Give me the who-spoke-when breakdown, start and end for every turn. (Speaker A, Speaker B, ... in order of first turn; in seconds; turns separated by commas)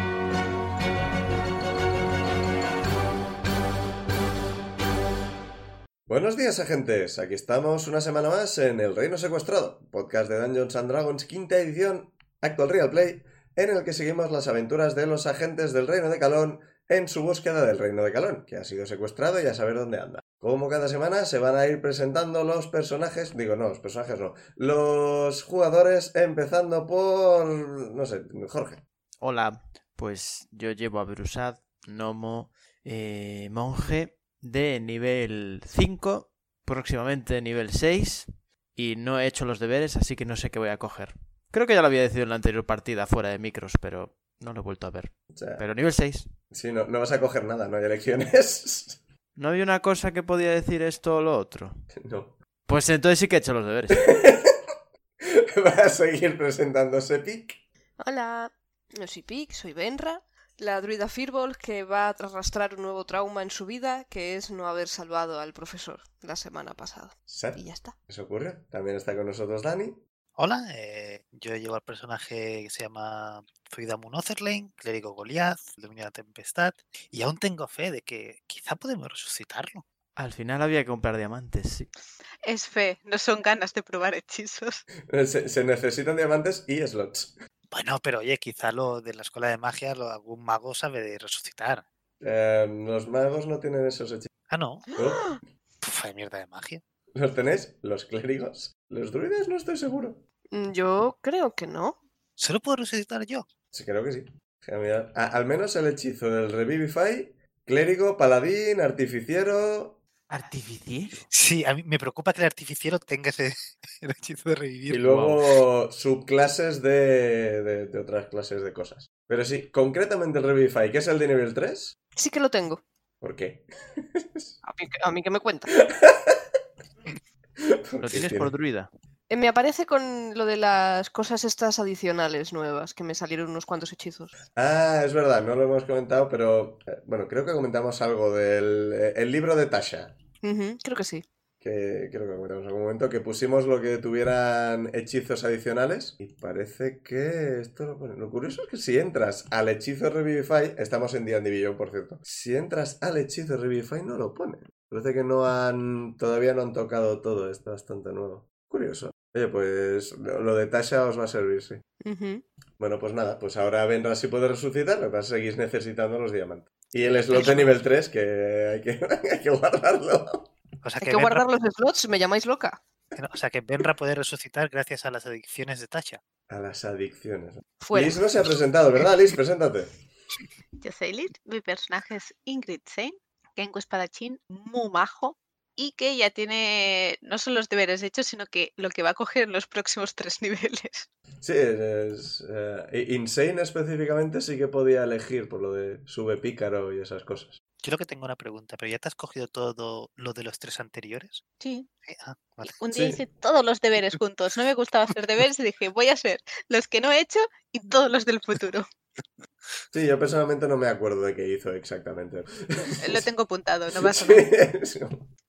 Speaker A: 6.1-28.8, Speaker B: 29.2-46.3, Speaker A: 45.3-45.6, Speaker A: 46.5-49.0, Speaker B: 49.4-51.8, Speaker A: 51.9-52.4, Speaker B: 52.7-54.1, Speaker A: 53.9-54.6, Speaker A: 55.2-57.6, Speaker C: 58.0-67.9, Speaker A: 67.3-70.0, Speaker D: 70.4-79.8, Speaker B: 80.2-81.9, Speaker E: 82.4-84.8, Speaker A: 85.0-87.3, Speaker D: 87.7-91.8, Speaker A: 92.2-94.3, Speaker D: 94.5-94.8, Speaker C: 94.9-95.3, Speaker A: 94.9-95.4, Speaker D: 95.8-96.8, Speaker A: 97.1-100.2, Speaker C: 100.5-102.0, Speaker D: 102.4-103.5, Speaker A: 103.7-110.0, Speaker B: 110.3-111.3, Speaker D: 111.3-115.1, Speaker A: 114.9-121.9, Speaker B: 115.0-115.4, Speaker C: 122.2-122.8, Speaker A: 123.2-124.5, Speaker C: 124.6-125.7, Speaker A: 125.8-126.4, Speaker A: 127.6-128.5, Speaker B: 128.0-128.9, Speaker C: 129.3-134.3, Speaker A: 134.6-140.2, Speaker C: 140.4-141.2, Speaker A: 141.6-161.8, Speaker C: 162.0-162.4, Speaker A: 162.8-170.5, Speaker C: 167.3-167.7, Speaker D: 170.8-171.4, Speaker C: 171.0-172.8, Speaker D: 173.2-176.2, Speaker A: 176.5-180.0, Speaker C: 177.8-178.2, Speaker E: 180.8-191.1, Speaker A: 191.4-197.6, Speaker D: 197.8-201.4, Speaker E: 201.6-201.9, Speaker D: 202.1-202.7, Speaker E: 202.8-208.8, Speaker A: 202.9-203.2, Speaker A: 209.9-213.3, Speaker E: 213.0-214.5, Speaker A: 214.0-215.3